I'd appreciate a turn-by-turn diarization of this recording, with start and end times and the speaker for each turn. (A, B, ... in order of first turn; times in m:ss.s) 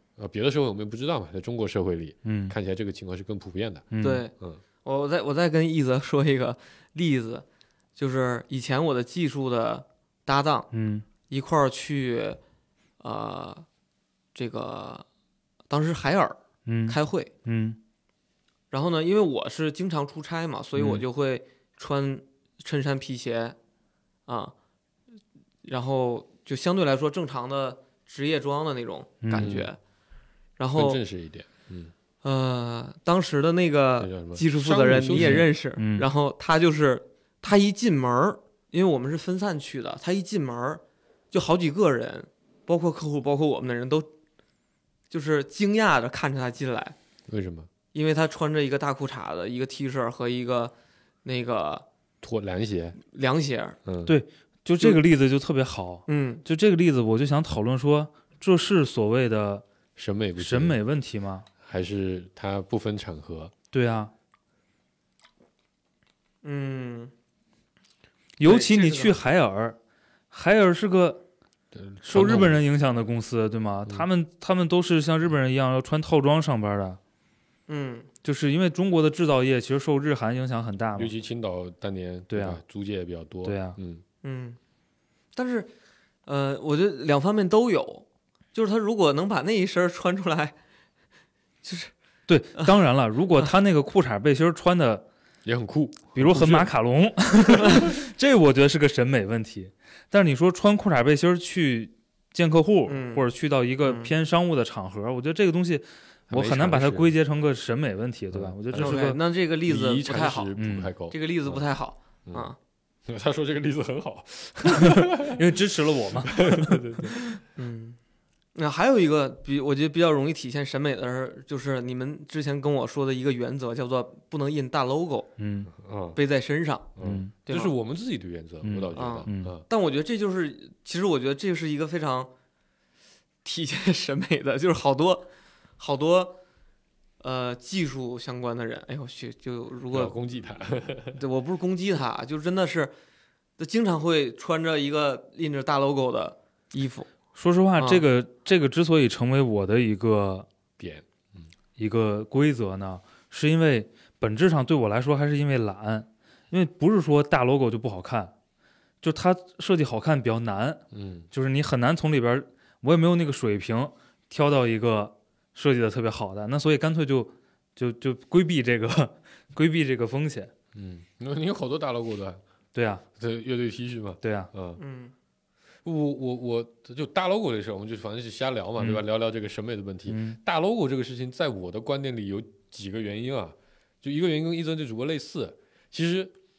0:00.2-0:04.6 A
0:02.2-0:02.5 B
0:03.9-0:04.2 B
0:04.0-0:04.3 C
0:04.8-0:07.4 C
0:08.0-0:10.7 C
0:10.7-0:11.0 B
0:11.3-0:12.4 C
0:13.0-0:13.6 C
0:14.3-0:15.0 C
0:15.7-0:17.3 C
0:16.6-0:17.8 B
0:18.7-0:23.6 C
0:20.8-0:21.0 B
0:24.3-0:24.5 C
0:25.6-0:29.8 C
0:29.2-0:29.6 B
0:29.3-0:29.7 A
0:30.6-0:31.0 C
0:30.7-0:31.9 A
0:32.2-0:44.1 C
0:34.0-0:35.4 A
0:35.1-0:36.0 B
0:45.1-0:46.9 C
0:47.3-0:47.7 A
0:47.9-0:50.7 C
0:51.2-0:51.8 C
0:52.2-0:53.0 A
0:53.0-0:53.8 C
0:53.8-0:54.2 A
0:54.0-0:59.6 B
0:56.1-0:56.4 C
1:00.0-1:00.8 A
1:00.4-1:01.4 B
1:01.6-1:03.5 A
1:03.7-1:04.1 B
1:06.4-1:07.1 C
1:08.4-1:09.8 B
1:08.4-1:09.2 C
1:10.3-1:11.2 B
1:11.7-1:12.6 A
1:12.0-1:17.0 B
1:17.7-1:18.1 C
1:18.2-1:21.1 B
1:21.0-1:24.0 A
1:22.3-1:22.6 B
1:23.4-1:23.8 B
1:24.2-1:24.6 C
1:25.3-1:25.7 C
1:26.2-1:30.6 C
1:31.6-1:31.9 C
1:32.3-1:35.0 B
1:35.4-1:36.7 A
1:36.1-1:49.2 B
1:37.4-1:37.9 A
1:42.9-1:43.3 C
1:43.8-1:44.1 C
1:46.3-1:47.1 A
1:48.3-1:49.0 A
1:48.7-1:50.5 C
1:49.6-1:51.6 A
1:50.6-1:50.9 B
1:51.1-1:52.6 C
1:52.2-1:52.5 A
1:53.0-1:55.4 A
1:54.7-1:57.0 B
1:56.1-1:57.2 A
1:57.6-1:58.0 C
1:58.5-2:05.3 C
2:05.4-2:05.7 B
2:05.7-2:06.2 A
2:06.1-2:06.9 C
2:07.0-2:09.6 A
2:07.0-2:07.3 B
2:07.4-2:07.7 C
2:08.6-2:09.5 B
2:08.9-2:12.3 C
2:13.4-2:16.4 C
2:17.2-2:20.1 C
2:19.9-2:21.2 A
2:21.2-2:22.9 C
2:23.6-2:27.1 C
2:27.3-2:30.5 B
2:27.8-2:28.0 C
2:30.8-2:31.5 A
2:31.8-2:38.3 B
2:39.0-2:50.5 B
2:40.9-2:41.3 A
2:50.7-2:52.4 A
2:52.7-2:53.0 B
2:53.2-2:54.8 A
2:54.2-2:54.5 B
2:54.8-2:55.1 C
2:55.8-3:06.3 A
3:00.1-3:00.4 B